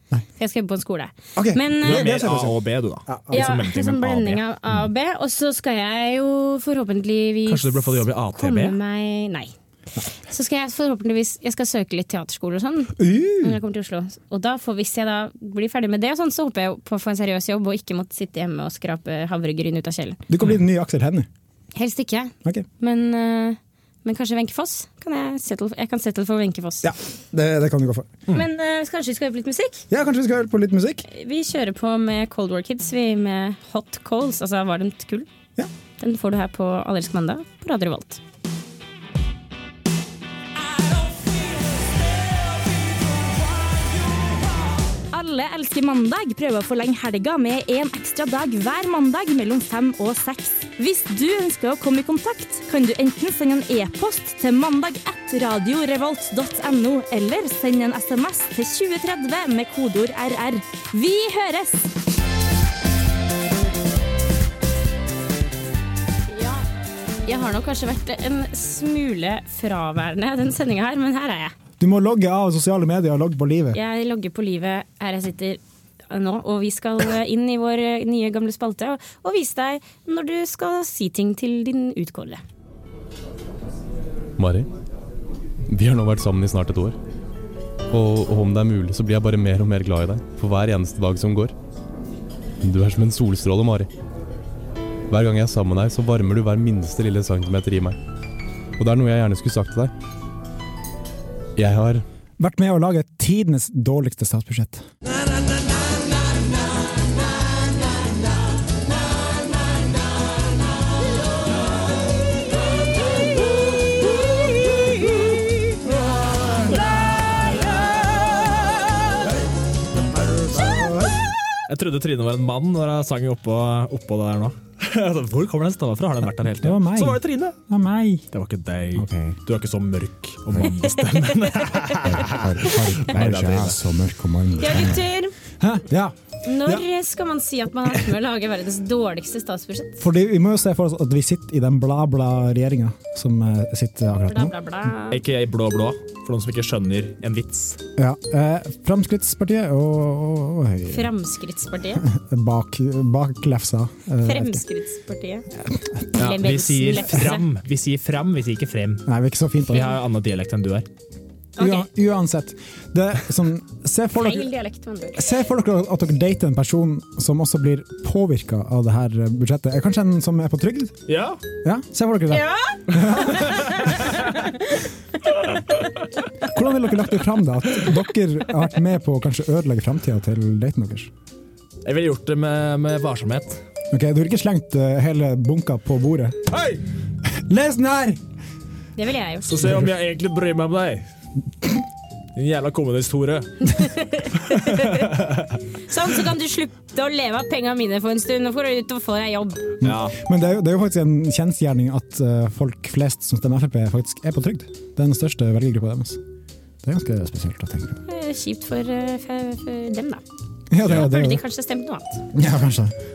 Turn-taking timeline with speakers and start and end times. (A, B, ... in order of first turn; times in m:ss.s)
0:00.4-0:02.1 A
0:01.3-0:03.6 B
0:01.8-0:04.4 C
0:03.3-0:09.5 A
0:07.4-0:08.8 C
0:10.0-0:20.2 A
0:13.0-0:13.6 B
0:20.3-0:21.3 B
0:21.7-0:26.9 A
0:26.8-0:28.2 B
0:28.3-0:29.8 A
0:29.9-0:31.0 B
0:31.1-0:35.3 A
0:36.0-0:38.2 A
0:45.1-1:01.9 D
1:06.3-1:06.6 A
1:07.2-1:11.5 A
1:11.8-1:13.8 B
1:13.7-1:22.4 A
1:24.4-1:24.7 E
1:25.7-1:27.0 E
1:27.9-1:31.5 E
1:32.6-1:33.9 E
1:35.1-1:38.0 E
1:38.8-1:39.9 E
1:41.6-1:42.0 E
1:42.4-1:44.8 B
2:01.7-2:07.6 C
2:06.6-2:08.2 B
2:08.3-2:13.8 C
2:08.9-2:09.4 B
2:12.2-2:15.0 B
2:14.6-2:15.3 A
2:15.6-2:16.8 B
2:16.4-2:20.0 A
2:20.0-2:24.5 B
2:24.2-2:25.2 A
2:25.1-2:27.8 C
2:28.0-2:31.1 B
2:30.9-2:32.0 A
2:32.0-2:34.6 B
2:34.2-2:35.5 A
2:35.6-2:36.0 B
2:36.2-2:37.4 A
2:36.2-2:39.0 C
2:39.0-2:39.9 B
2:39.7-2:40.8 C
2:41.6-2:41.9 A
2:41.6-2:44.5 B
2:44.2-2:45.2 A
2:45.1-2:51.0 B
2:51.1-2:51.4 C
2:51.6-2:53.8 B
2:52.3-2:54.5 A
2:53.2-2:54.3 C
2:56.4-3:01.1 B
3:01.8-3:03.6 C
3:03.9-3:06.5 B
3:06.5-3:06.8 C
3:07.4-3:08.2 B
3:09.0-3:09.5 A
3:09.4-3:11.0 C
3:12.3-3:13.7 C
3:13.6-3:15.1 A
3:14.4-3:15.6 C
3:15.9-3:19.6 A
3:19.8-3:20.2 C
3:19.8-3:26.2 B
3:26.8-3:28.0 B
3:28.0-3:30.2 A
3:30.7-3:31.4 B
3:30.8-3:32.2 A
3:32.3-3:32.9 B